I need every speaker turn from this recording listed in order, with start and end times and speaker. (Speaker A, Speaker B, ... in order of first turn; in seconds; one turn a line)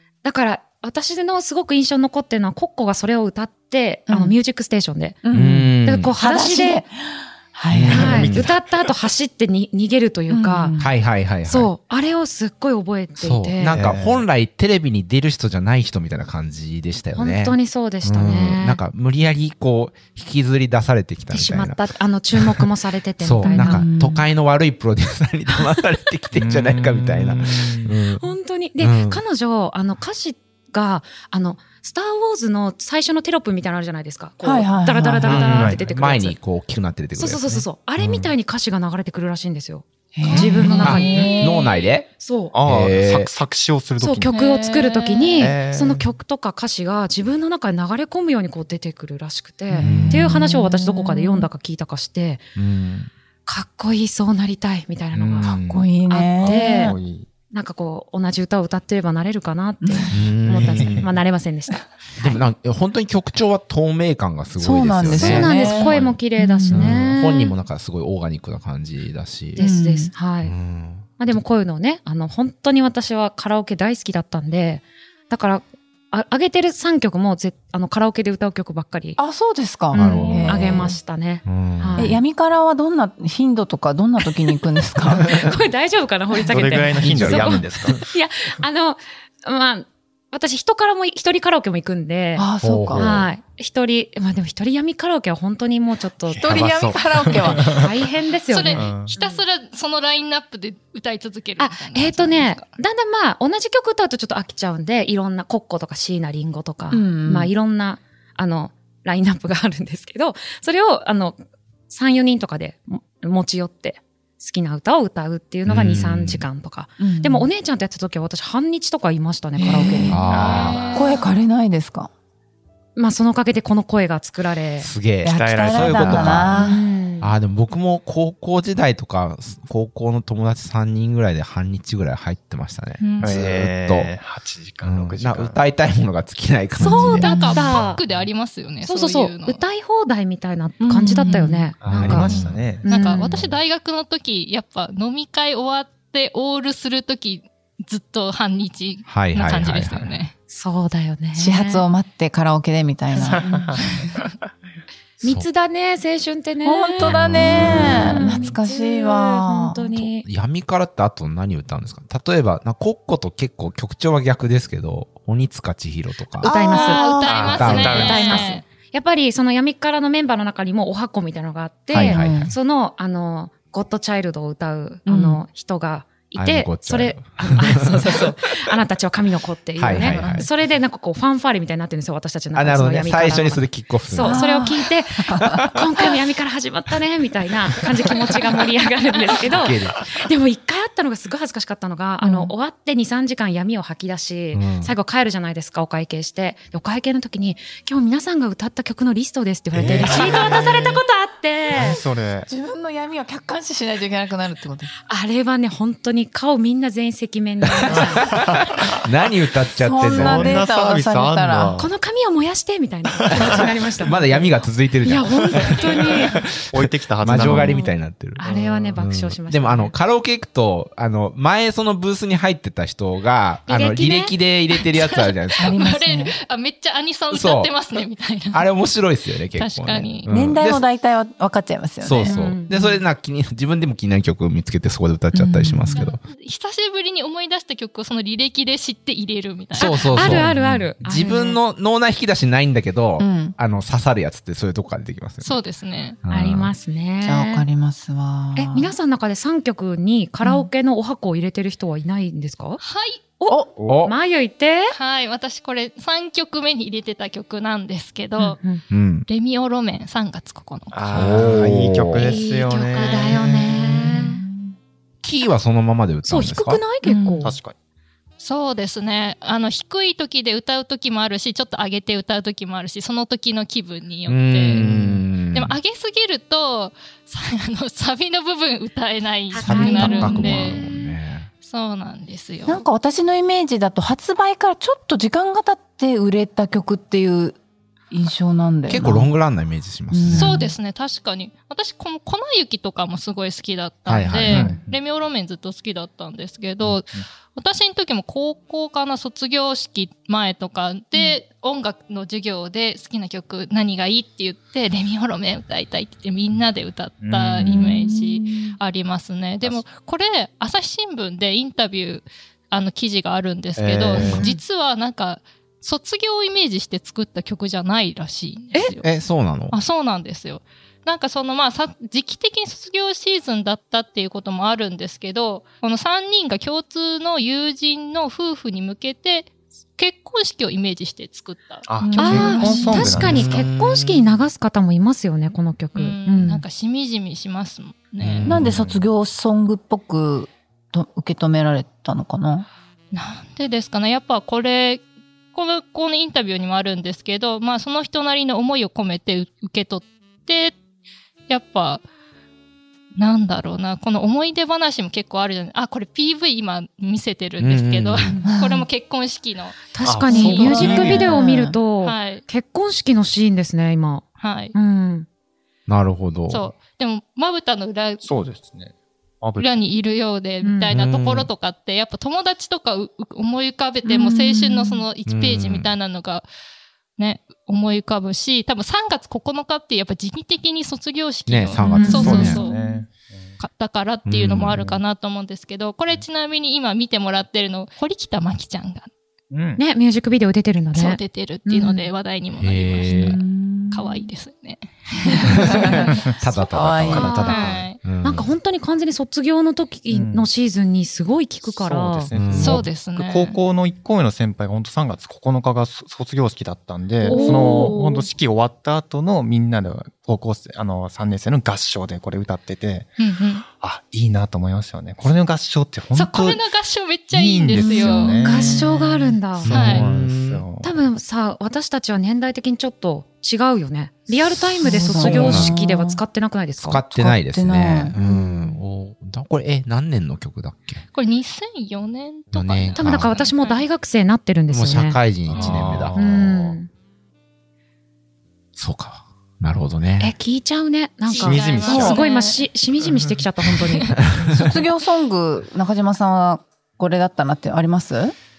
Speaker A: 0.2-6.8
Speaker B: 4.1-4.3
Speaker B: 5.2-8.3
Speaker C: 5.3-6.2
Speaker C: 7.7-8.5
Speaker D: 7.9-8.9
Speaker A: 7.9-10.8
Speaker B: 10.3-10.9
Speaker C: 10.8-11.7
Speaker A: 11.4-13.7
Speaker C: 13.2-22.7
Speaker D: 13.7-14.2
Speaker A: 17.1-18.8
Speaker A: 21.3-23.9
Speaker C: 23.2-29.2
Speaker B: 23.4-24.2
Speaker D: 26.3-27.9
Speaker A: 28.2-36.4
Speaker B: 34.4-35.4
Speaker C: 35.2-37.5
Speaker D: 35.3-36.0
Speaker A: 37.1-42.5
Speaker C: 38.0-38.3
Speaker B: 40.1-41.6
Speaker D: 40.2-41.3
Speaker C: 40.7-42.1
Speaker D: 42.5-44.4
Speaker C: 42.6-43.3
Speaker A: 44.0-52.5
Speaker E: 44.3-45.4
Speaker D: 45.4-46.1
Speaker B: 49.7-51.5
Speaker C: 49.8-50.3
Speaker C: 52.5-53.1
Speaker A: 53.5-57.0
Speaker C: 55.1-55.8
Speaker B: 55.7-57.0
Speaker D: 56.4-57.3
Speaker A: 57.5-62.4
Speaker B: 59.8-60.4
Speaker C: 60.1-61.1
Speaker D: 60.7-61.0
Speaker C: 62.2-69.6
Speaker B: 64.6-66.9
Speaker A: 65.1-67.5
Speaker A: 69.5-70.5
Speaker B: 69.6-70.1
Speaker C: 70.4-71.4
Speaker A: 71.2-79.2
Speaker B: 79.2-81.0
Speaker A: 79.9-82.2
Speaker C: 79.9-80.9
Speaker C: 81.4-82.2
Speaker B: 82.0-85.3
Speaker A: 85.0-96.7
Speaker C: 85.1-85.6
Speaker D: 86.5-88.0
Speaker C: 86.7-87.9
Speaker B: 92.3-93.2
Speaker C: 92.6-93.3
Speaker D: 96.3-97.9
Speaker B: 96.4-97.8
Speaker A: 97.5-99.4
Speaker E: 98.5-102.7
Speaker D: 98.7-99.1
Speaker A: 101.6-111.4
Speaker B: 106.9-107.5
Speaker A: 111.9-120.2
Speaker C: 115.7-116.5
Speaker B: 117.0-117.5
Speaker B: 119.6-120.3
Speaker C: 120.1-121.0
Speaker E: 120.3-121.3
Speaker D: 120.3-121.0
Speaker B: 120.9-122.1
Speaker A: 123.0-124.9
Speaker C: 124.8-134.1
Speaker B: 125.2-126.8
Speaker D: 125.2-126.5
Speaker A: 126.5-127.3
Speaker E: 133.0-133.4
Speaker D: 133.2-135.6
Speaker C: 134.8-137.6
Speaker A: 136.8-138.0
Speaker E: 137.0-139.6
Speaker B: 137.1-137.7
Speaker A: 138.8-143.4
Speaker B: 140.8-141.7
Speaker D: 141.8-143.6
Speaker C: 141.9-142.6
Speaker E: 142.8-150.3
Speaker C: 149.1-150.2
Speaker A: 150.5-151.8
Speaker B: 151.4-154.1
Speaker D: 153.2-154.3
Speaker A: 153.2-153.8
Speaker A: 155.2-160.2
Speaker C: 155.2-155.5
Speaker B: 156.6-159.9
Speaker C: 157.0-158.3
Speaker C: 159.9-166.5
Speaker B: 166.4-167.9
Speaker A: 166.4-167.1
Speaker E: 166.6-168.6
Speaker C: 167.2-168.4
Speaker D: 167.4-168.5
Speaker A: 167.7-202.0
Speaker C: 171.9-172.5
Speaker B: 172.1-172.5
Speaker B: 175.1-175.4
Speaker C: 176.3-178.8
Speaker C: 179.8-180.5
Speaker B: 180.0-180.5
Speaker C: 182.5-184.5
Speaker B: 184.2-185.6
Speaker C: 185.4-185.8
Speaker C: 189.5-190.0
Speaker B: 192.2-192.5
Speaker C: 194.5-194.9
Speaker D: 199.8-201.0
Speaker C: 199.8-200.9
Speaker B: 201.7-204.9
Speaker D: 201.7-202.5
Speaker A: 205.1-208.4
Speaker C: 207.6-210.7
Speaker D: 208.1-208.8
Speaker B: 209.8-211.8
Speaker D: 209.9-211.9
Speaker A: 211.8-214.3
Speaker D: 213.2-213.6
Speaker C: 213.3-225.7
Speaker A: 215.0-216.4
Speaker D: 216.7-217.8
Speaker A: 217.4-219.9
Speaker A: 223.7-224.3
Speaker E: 224.7-228.7
Speaker B: 225.6-226.3
Speaker C: 227.3-227.7
Speaker C: 228.5-230.8
Speaker E: 229.5-230.3
Speaker B: 230.3-232.3
Speaker C: 232.0-236.2
Speaker A: 232.2-232.9
Speaker B: 235.3-236.0
Speaker E: 235.9-240.4
Speaker C: 239.7-245.6
Speaker A: 239.8-241.6
Speaker B: 243.2-243.6
Speaker E: 245.4-246.2
Speaker C: 246.2-246.7
Speaker A: 246.3-247.7
Speaker B: 247.2-248.9
Speaker A: 248.5-252.8
Speaker B: 250.4-250.7
Speaker E: 252.8-253.2
Speaker A: 253.4-254.9
Speaker C: 253.8-254.2
Speaker E: 254.9-258.6
Speaker A: 258.4-258.8
Speaker C: 258.9-259.3
Speaker E: 259.3-261.4
Speaker D: 260.9-264.7
Speaker C: 261.1-262.3
Speaker A: 262.2-264.4
Speaker E: 262.9-263.3
Speaker C: 265.2-266.8
Speaker A: 266.2-267.6
Speaker B: 267.0-267.5
Speaker D: 267.4-267.8
Speaker E: 268.4-280.9
Speaker C: 274.3-275.8
Speaker A: 279.5-280.8
Speaker C: 279.6-281.5
Speaker B: 280.4-280.7
Speaker E: 281.6-282.8
Speaker B: 282.6-287.6
Speaker B: 288.1-289.3
Speaker C: 288.9-290.6
Speaker B: 290.1-290.7
Speaker E: 290.3-319.1
Speaker C: 294.1-294.6
Speaker D: 294.5-295.0
Speaker D: 296.8-297.2
Speaker D: 307.2-307.8
Speaker B: 307.6-308.8
Speaker D: 309.6-309.9
Speaker D: 313.8-314.5
Speaker B: 314.1-314.5
Speaker C: 319.0-319.8
Speaker E: 319.7-332.4
Speaker D: 331.9-333.6
Speaker B: 332.0-333.1
Speaker A: 332.2-336.6
Speaker C: 332.9-334.4
Speaker E: 335.9-338.5
Speaker D: 338.2-338.7
Speaker C: 338.4-339.0
Speaker B: 338.4-342.7
Speaker E: 343.1-350.8
Speaker E: 351.5-352.0
Speaker E: 353.1-361.2
Speaker C: 357.6-358.4
Speaker A: 358.2-358.5
Speaker B: 358.4-358.9
Speaker A: 359.9-365.3
Speaker D: 360.0-361.4
Speaker B: 360.3-361.8
Speaker E: 362.0-362.4
Speaker E: 364.4-364.7
Speaker C: 365.9-366.6
Speaker E: 366.5-368.3
Speaker D: 368.2-369.8
Speaker E: 369.6-376.4
Speaker A: 370.6-370.9
Speaker C: 370.9-371.5
Speaker B: 374.0-375.0
Speaker C: 375.3-375.9
Speaker E: 377.2-383.0
Speaker C: 381.5-382.6
Speaker B: 381.8-382.1
Speaker A: 381.8-382.5
Speaker D: 382.1-383.6
Speaker E: 383.6-389.1
Speaker C: 384.2-384.8
Speaker D: 384.7-385.0
Speaker D: 389.5-389.8
Speaker A: 389.8-392.1
Speaker E: 390.9-393.4
Speaker C: 392.6-393.4
Speaker B: 393.1-394.3
Speaker E: 393.9-396.4
Speaker B: 395.4-397.4
Speaker C: 395.4-398.5
Speaker A: 397.1-402.3
Speaker D: 397.1-397.8
Speaker E: 397.2-398.0
Speaker D: 400.1-400.5
Speaker D: 401.6-416.6
Speaker C: 402.3-402.9
Speaker E: 402.5-403.6
Speaker A: 407.3-408.0
Speaker E: 407.3-408.1
Speaker B: 407.3-407.8
Speaker E: 413.2-413.6
Speaker E: 416.1-418.4
Speaker D: 417.3-418.9
Speaker B: 417.7-419.4
Speaker A: 418.4-419.7
Speaker C: 419.6-420.6
Speaker D: 419.6-421.0
Speaker E: 419.7-420.0
Speaker A: 420.8-427.0
Speaker B: 424.8-426.2
Speaker C: 425.1-425.8
Speaker C: 426.8-431.0
Speaker B: 427.1-428.2
Speaker A: 428.2-428.7
Speaker E: 431.1-433.9
Speaker C: 432.5-433.4
Speaker A: 432.9-435.2
Speaker C: 434.7-436.5
Speaker D: 435.4-436.7
Speaker A: 436.1-436.9
Speaker C: 438.8-440.3
Speaker A: 440.2-444.2
Speaker E: 441.3-442.6
Speaker D: 441.3-442.2
Speaker B: 441.9-442.2
Speaker D: 443.0-443.4
Speaker C: 444.1-444.8
Speaker B: 444.5-448.3